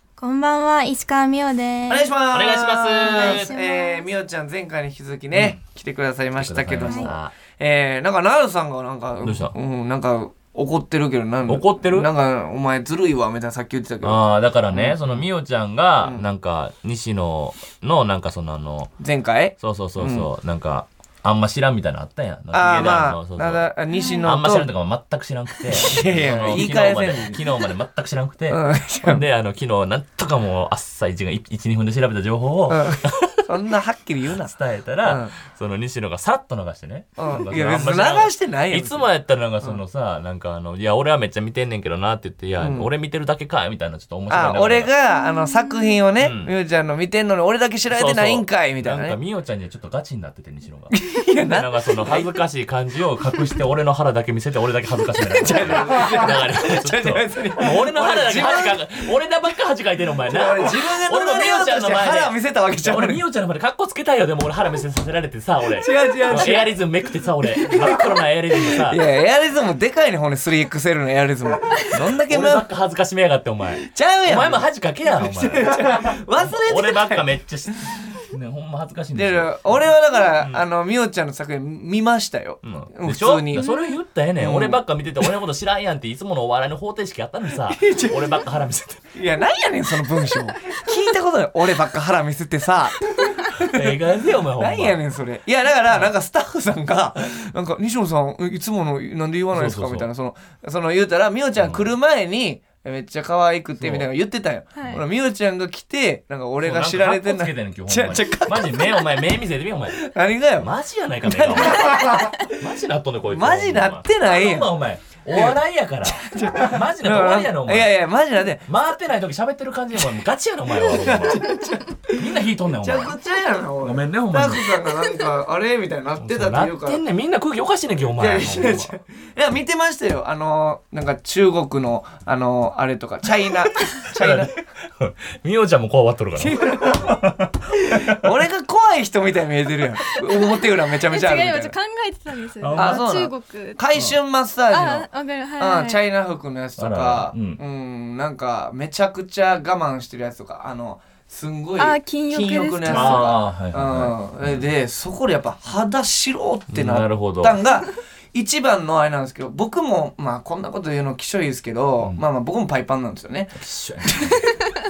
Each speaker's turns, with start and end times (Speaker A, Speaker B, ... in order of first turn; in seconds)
Speaker A: 0.2-2.1, 3.0-4.1, 23.9-24.3, 45.1-46.0, 83.5-83.9, 104.7-105.0, 141.1-143.8, 144.7-146.0, 151.8-153.3
Speaker B: 1.9-15.2, 19.0-20.3, 22.5-24.7, 25.7-27.4, 28.5-29.2, 32.7-35.3, 37.2-39.1, 42.6-42.9, 44.3-49.2, 50.9-52.3, 55.3-58.8, 60.3-63.2, 65.8-66.7, 68.8-72.7, 73.8-77.3, 79.1-83.7, 84.4-84.8, 87.7-88.4, 89.1-93.9, 94.6-109.2, 109.9-110.7, 111.2-112.4, 113.3-114.7, 115.3-118.7, 120.9-127.0, 128.2-134.6, 136.4-137.3, 137.8-141.7, 142.7-145.1, 145.6-164.4
Speaker C: 2.3-3.5, 5.3-5.6, 6.4-7.3, 9.2-9.5, 11.5-12.1, 14.0-18.9, 19.6-23.7, 24.2-33.4, 34.4-44.9, 46.2-46.5, 47.9-69.0, 71.9-79.8, 82.6-89.0, 93.6-95.0, 99.5-100.1, 101.6-101.9, 103.8-104.1, 106.6-110.0, 110.6-117.9, 118.7-121.5, 122.1-123.2, 123.8-124.8, 126.2-128.9, 134.1-138.3, 142.6-143.0, 146.8-147.6, 152.8-154.7, 156.7-157.6, 163.6-164.5